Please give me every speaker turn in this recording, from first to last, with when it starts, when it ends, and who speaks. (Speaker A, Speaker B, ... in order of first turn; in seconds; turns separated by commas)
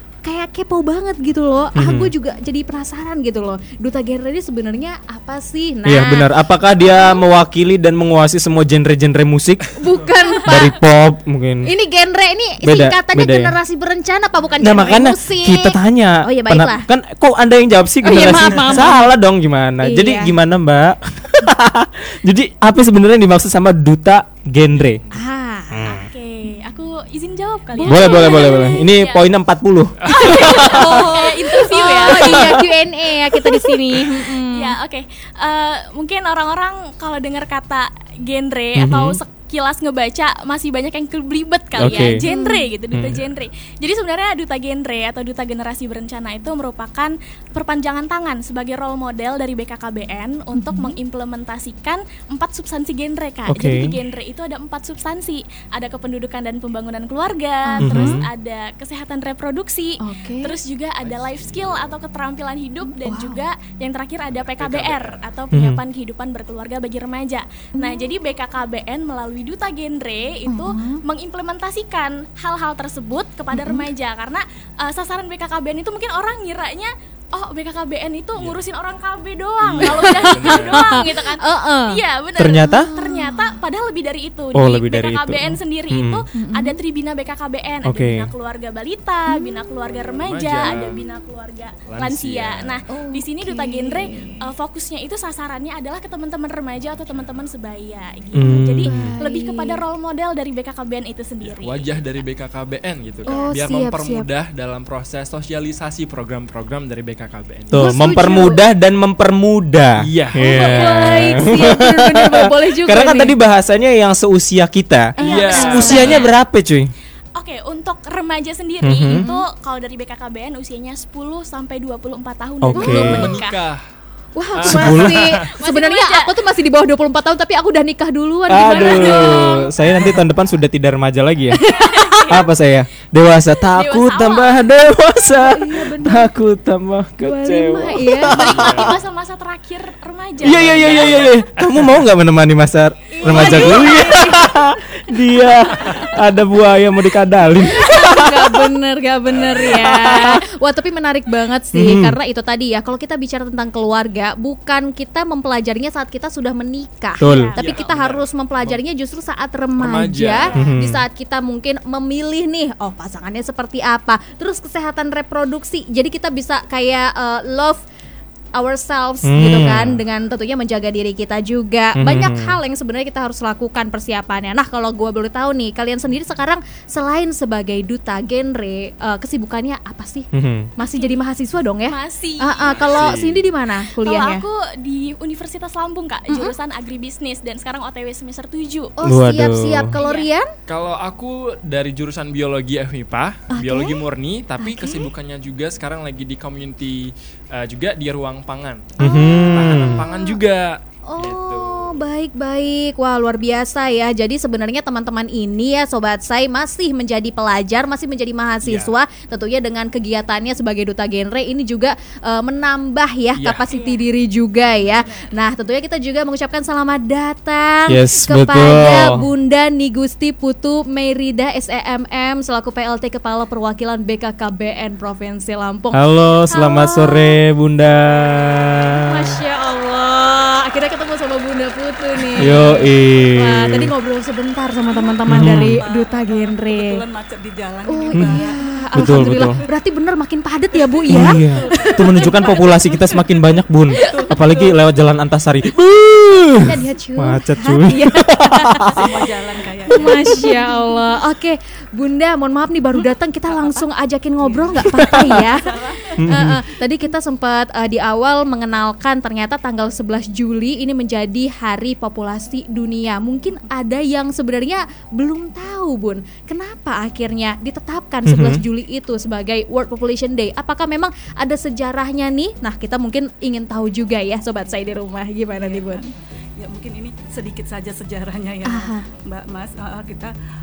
Speaker A: 0.2-7.2, Speaker B: 1.8-2.1, Speaker B: 5.8-9.6, Speaker A: 9.8-10.8, Speaker B: 10.5-11.7, Speaker A: 11.6-16.9, Speaker B: 12.6-13.6, Speaker B: 14.6-25.0, Speaker A: 18.0-19.1, Speaker A: 19.8-20.4, Speaker C: 24.8-25.1, Speaker A: 25.1-25.9, Speaker B: 25.7-26.0, Speaker D: 25.9-29.3, Speaker A: 27.8-28.8, Speaker B: 27.8-30.8, Speaker C: 30.0-30.8, Speaker A: 30.1-34.8, Speaker D: 30.3-32.5, Speaker D: 33.9-102.1, Speaker B: 38.8-39.2, Speaker B: 41.8-42.2, Speaker A: 42.2-42.7, Speaker B: 42.9-43.2, Speaker A: 50.5-50.9, Speaker B: 53.5-54.0, Speaker A: 57.7-58.2, Speaker B: 57.8-58.3, Speaker A: 60.0-60.5, Speaker C: 61.0-62.1, Speaker A: 62.9-63.4, Speaker C: 64.3-65.4, Speaker B: 65.5-65.8, Speaker A: 67.8-68.1, Speaker A: 70.5-71.0, Speaker A: 73.5-73.9, Speaker C: 79.6-81.0, Speaker A: 79.8-82.0, Speaker B: 82.4-82.9, Speaker A: 82.6-83.5, Speaker B: 84.5-86.2, Speaker A: 86.3-86.8, Speaker B: 87.8-88.3, Speaker A: 89.3-89.6, Speaker C: 90.2-91.1, Speaker C: 91.9-92.8, Speaker A: 92.9-94.5, Speaker C: 96.9-97.5, Speaker B: 98.3-99.2, Speaker A: 98.8-99.8, Speaker C: 101.4-108.0, Speaker A: 103.3-104.3, Speaker B: 107.7-116.9, Speaker A: 107.7-108.7, Speaker C: 110.0-110.5, Speaker A: 110.4-113.4, Speaker D: 110.5-110.9, Speaker A: 115.2-116.1, Speaker C: 115.2-116.3, Speaker D: 115.5-116.3, Speaker D: 117.4-123.6, Speaker B: 118.8-119.2, Speaker A: 119.1-119.4, Speaker B: 122.6-123.3, Speaker A: 122.7-123.3, Speaker C: 123.1-123.8, Speaker A: 124.3-130.2, Speaker C: 124.5-125.5, Speaker B: 124.6-125.2, Speaker D: 125.6-126.3, Speaker B: 128.5-131.6, Speaker A: 131.5-132.2, Speaker D: 131.8-132.4, Speaker B: 132.3-138.9, Speaker D: 133.7-134.8, Speaker A: 135.3-136.3, Speaker A: 137.2-138.8, Speaker C: 138.4-138.9, Speaker D: 138.5-141.4, Speaker B: 140.4-148.6, Speaker C: 140.7-142.1, Speaker A: 143.2-146.1, Speaker D: 143.3-144.0, Speaker A: 147.6-167.8, Speaker C: 149.3-150.4, Speaker B: 151.7-152.2, Speaker B: 157.2-157.5, Speaker D: 157.2-157.9, Speaker C: 157.6-158.8, Speaker C: 159.8-160.6, Speaker D: 160.4-160.8, Speaker B: 160.6-161.1, Speaker A: 168.6-184.4, Speaker B: 169.2-170.0, Speaker B: 171.9-172.6, Speaker B: 180.3-180.7, Speaker D: 180.8-181.2, Speaker D: 181.9-183.1, Speaker C: 182.6-183.5, Speaker D: 183.9-188.9, Speaker A: 189.0-190.5, Speaker B: 189.0-190.0, Speaker D: 190.0-190.3, Speaker C: 190.7-202.0, Speaker A: 193.5-194.0, Speaker A: 194.6-195.1, Speaker A: 199.0-200.4, Speaker B: 199.0-200.1, Speaker A: 201.1-227.4, Speaker C: 208.6-208.9, Speaker C: 213.4-213.7, Speaker D: 213.7-214.1, Speaker D: 214.7-215.3, Speaker B: 217.9-219.3, Speaker B: 225.9-228.8, Speaker A: 229.0-237.0, Speaker B: 232.4-233.9, Speaker E: 232.4-232.7, Speaker E: 234.9-239.4, Speaker B: 235.3-235.8, Speaker A: 237.9-242.5, Speaker B: 238.1-238.4, Speaker B: 238.9-239.6, Speaker E: 240.7-243.0, Speaker B: 241.1-248.8, Speaker E: 244.0-244.9, Speaker A: 246.6-249.1, Speaker E: 248.9-250.9, Speaker A: 249.9-276.0, Speaker E: 253.5-253.8, Speaker E: 254.4-256.2, Speaker B: 256.2-256.6, Speaker B: 268.2-268.6, Speaker E: 275.5-280.3, Speaker A: 278.7-279.0